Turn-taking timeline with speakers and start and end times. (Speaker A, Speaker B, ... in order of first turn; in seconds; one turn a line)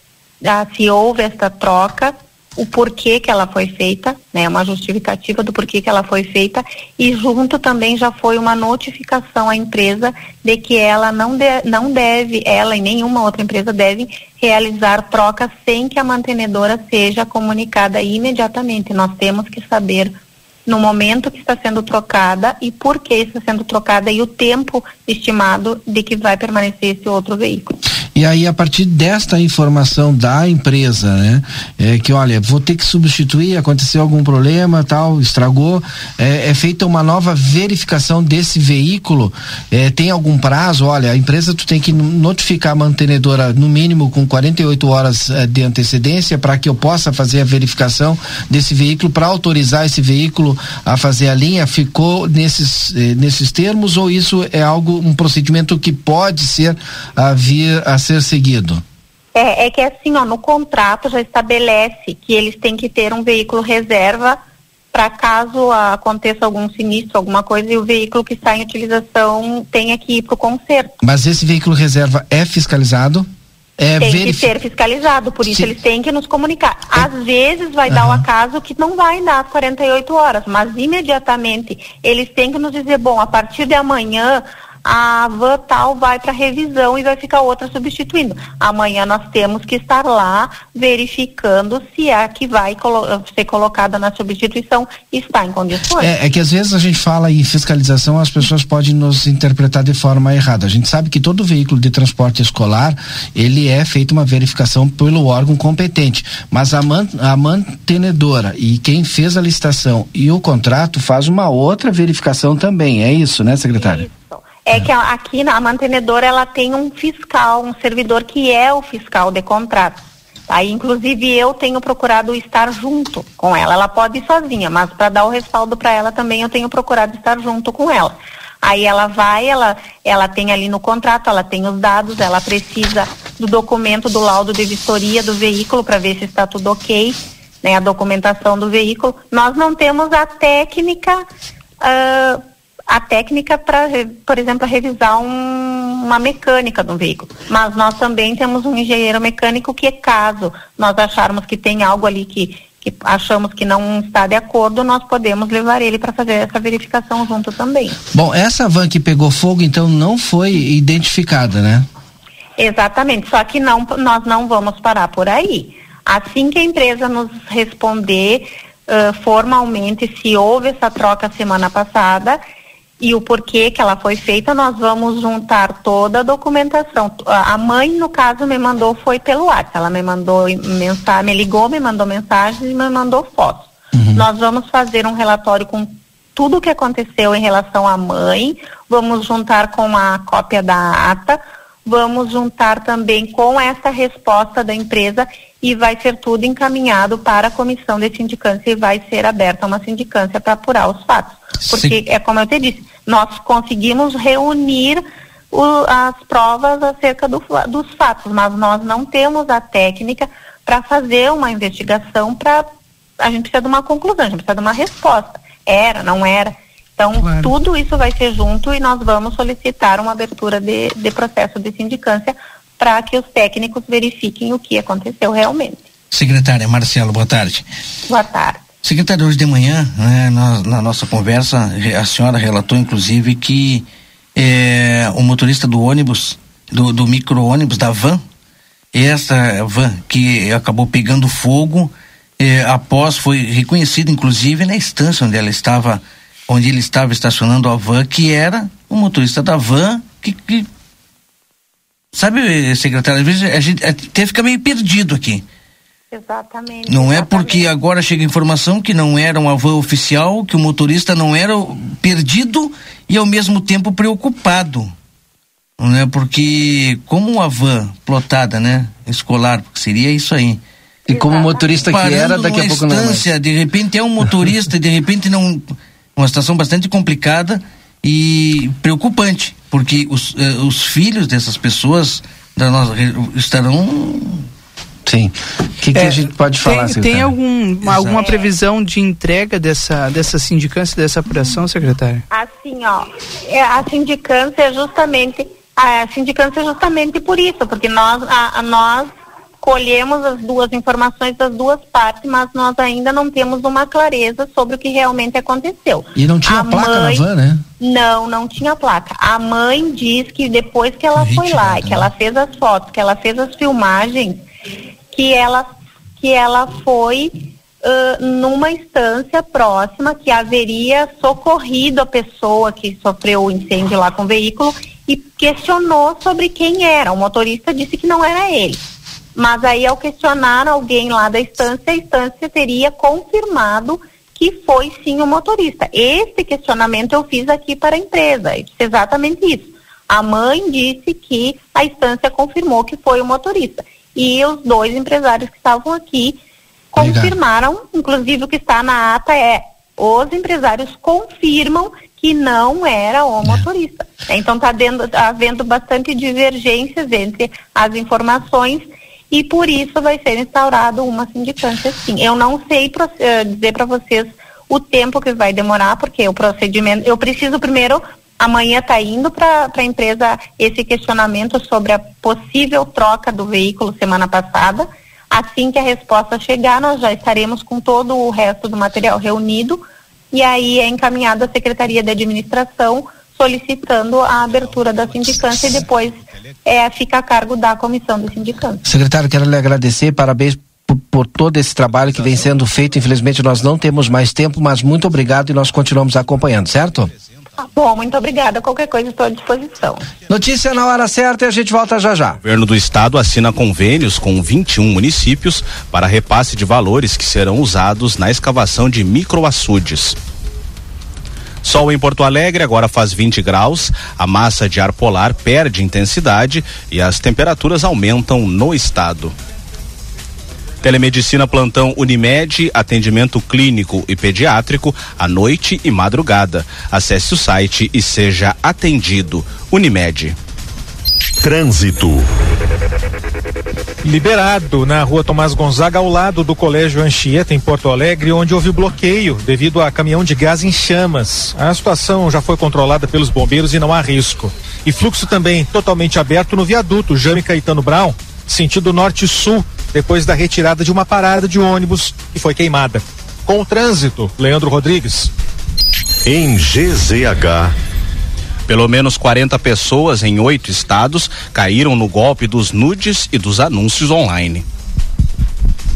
Speaker A: 0.4-27.7
Speaker B: 28.1-58.8
Speaker A: 59.3-64.4
Speaker A: 64.9-70.9
Speaker B: 71.0-74.5
Speaker A: 74.0-96.1
Speaker B: 77.9-78.2
Speaker B: 96.0-114.0
Speaker A: 113.8-141.2
Speaker A: 141.8-158.0
Speaker B: 158.1-161.8
Speaker A: 162.6-172.4
Speaker A: 173.0-212.7
Speaker B: 183.9-184.2
Speaker C: 201.7-201.9
Speaker A: 213.2-225.9
Speaker D: 217.2-217.5
Speaker C: 226.1-227.7
Speaker A: 228.1-228.6
Speaker C: 228.8-238.2
Speaker C: 238.9-250.7
Speaker C: 252.1-255.4
Speaker A: 256.1-257.7
Speaker C: 256.9-264.9
Speaker C: 265.8-270.6
Speaker B: 271.1-273.3
Speaker A: 271.1-271.7
Speaker C: 271.9-284.4
Speaker B: 285.1-287.3
Speaker D: 285.9-292.2
Speaker C: 287.8-288.3
Speaker A: 288.2-288.4
Speaker A: 292.3-307.2
Speaker B: 306.1-307.6
Speaker A: 307.8-314.4
Speaker B: 311.2-312.0
Speaker A: 315.1-328.8
Speaker A: 329.4-346.4
Speaker A: 346.9-388.8
Speaker B: 347.0-347.3
Speaker B: 388.8-397.1
Speaker A: 397.6-400.0
Speaker B: 400.3-402.4
Speaker E: 402.4-410.2
Speaker E: 411.6-419.3
Speaker E: 420.8-430.4
Speaker F: 434.0-455.3
Speaker E: 458.7-464.6